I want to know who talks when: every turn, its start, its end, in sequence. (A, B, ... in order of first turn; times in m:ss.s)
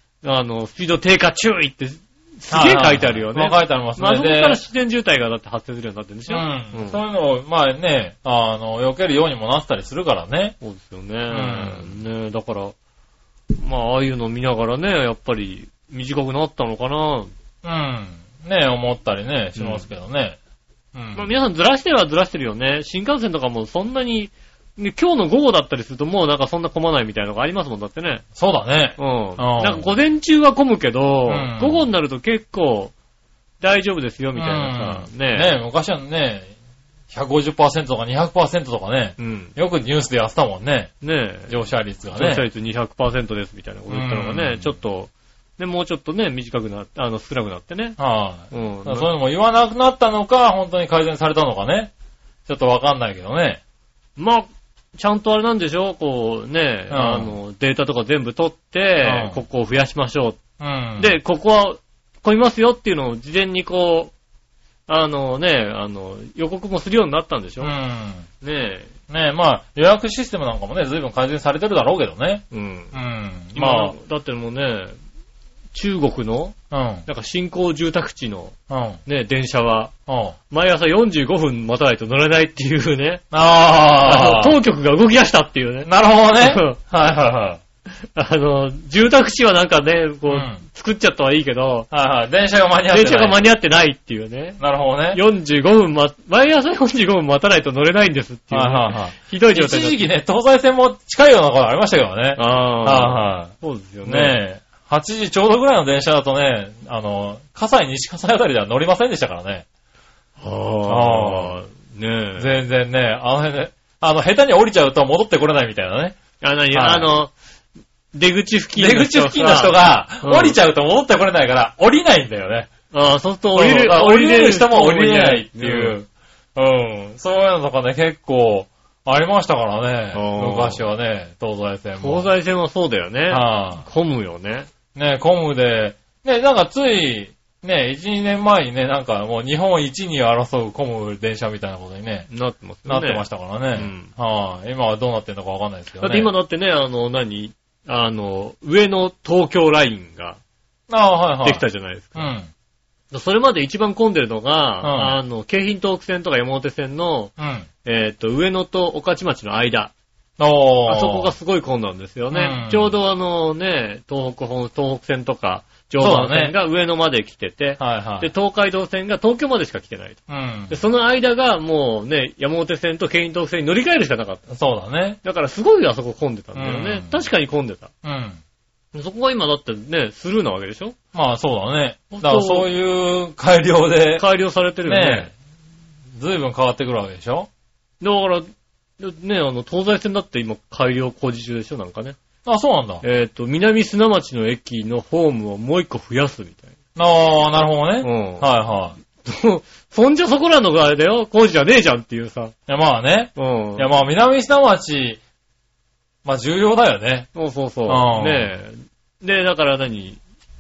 0:00.2-0:07.0 A
0:02.5-0:04.6 B
0:06.3-0:10.6 B
0:10.6-0:12.8 A
0:11.3-0:12.0 B
0:13.5-0:17.3 A
0:17.6-0:20.4 B
0:19.6-0:19.9 A
0:20.9-0:21.3 B
0:21.1-0:28.2 A
0:28.4-0:29.9 B
0:29.0-0:32.9 A
0:31.3-0:31.8 B
0:33.6-0:35.5 A
0:34.4-0:36.5 B
0:37.1-0:40.9 B
0:39.2-0:39.5 A
0:41.0-0:41.6 A
0:41.5-0:42.5 B
0:42.1-0:48.0 A
0:43.9-0:44.8 B
0:48.0-0:51.9 B
0:48.5-0:49.1 A
0:52.5-0:53.6 B
0:54.2-1:00.4 A
0:56.9-0:57.3 B
0:59.0-0:59.4 B
1:00.6-1:01.1 B
1:01.0-1:04.1 A
1:04.9-1:07.7 A
1:07.6-1:08.3 B
1:08.4-1:08.9 A
1:09.1-1:14.0 B
1:12.5-1:13.0 A
1:13.5-1:15.0 A
1:15.7-1:16.5 A
1:16.7-1:17.1 B
1:17.1-1:18.5 A
1:18.7-1:19.0 B
1:19.1-1:19.9 A
1:20.1-1:20.4 B
1:20.5-1:23.2 A
1:23.3-1:24.6 B
1:24.0-1:26.8 A
1:25.8-1:27.6 B
1:28.1-1:31.9 A
1:30.3-1:30.6 B
1:31.9-1:33.4 B
1:32.9-1:34.6 A
1:34.6-1:35.2 B
1:35.1-1:40.0 A
1:38.5-1:43.5 B
1:42.4-1:44.4 A
1:44.0-1:49.6 B
1:50.4-1:52.5 A
1:50.9-1:51.5 B
1:52.4-1:56.2 B
1:56.4-1:57.3 A
1:56.7-1:57.1 B
1:58.1-2:00.6 A
1:58.8-2:02.7 B
2:02.9-2:06.0 A
2:03.5-2:12.3 B
2:10.1-2:10.8 A
2:12.0-2:14.7 A
2:13.3-2:13.8 B
2:15.0-2:22.3 B
2:22.3-2:24.1 A
2:22.9-2:26.3 B
2:26.0-2:30.4 A
2:30.9-2:31.6 B
2:31.4-2:32.3 A
2:32.2-2:32.5 B
2:33.1-2:37.3 A
2:34.8-2:35.2 B
2:37.4-2:37.7 B
2:37.8-2:39.9 A
2:40.4-2:41.3 B
2:40.9-2:54.5 A
2:42.3-2:43.0 B
2:46.0-2:46.6 B
2:47.8-2:48.3 B
2:50.3-2:50.8 B
2:54.5-2:55.2 B
2:55.2-2:57.9 A
2:56.5-2:57.2 B
2:58.0-2:58.4 B
2:58.9-3:01.0 A
3:01.1-3:04.2 B
3:02.1-3:02.7 A
3:04.2-3:05.3 A
3:04.8-3:05.3 B
3:06.1-3:07.5 B
3:08.0-3:12.2 A
3:12.4-3:13.0 B
3:13.0-3:16.7 A
3:17.0-3:19.0 B
3:18.0-3:18.5 A
3:19.2-3:22.5 A
3:22.7-3:25.2 B
3:23.4-3:23.9 A
3:26.2-3:27.3 B
3:27.3-3:30.2 A
3:27.9-3:28.5 B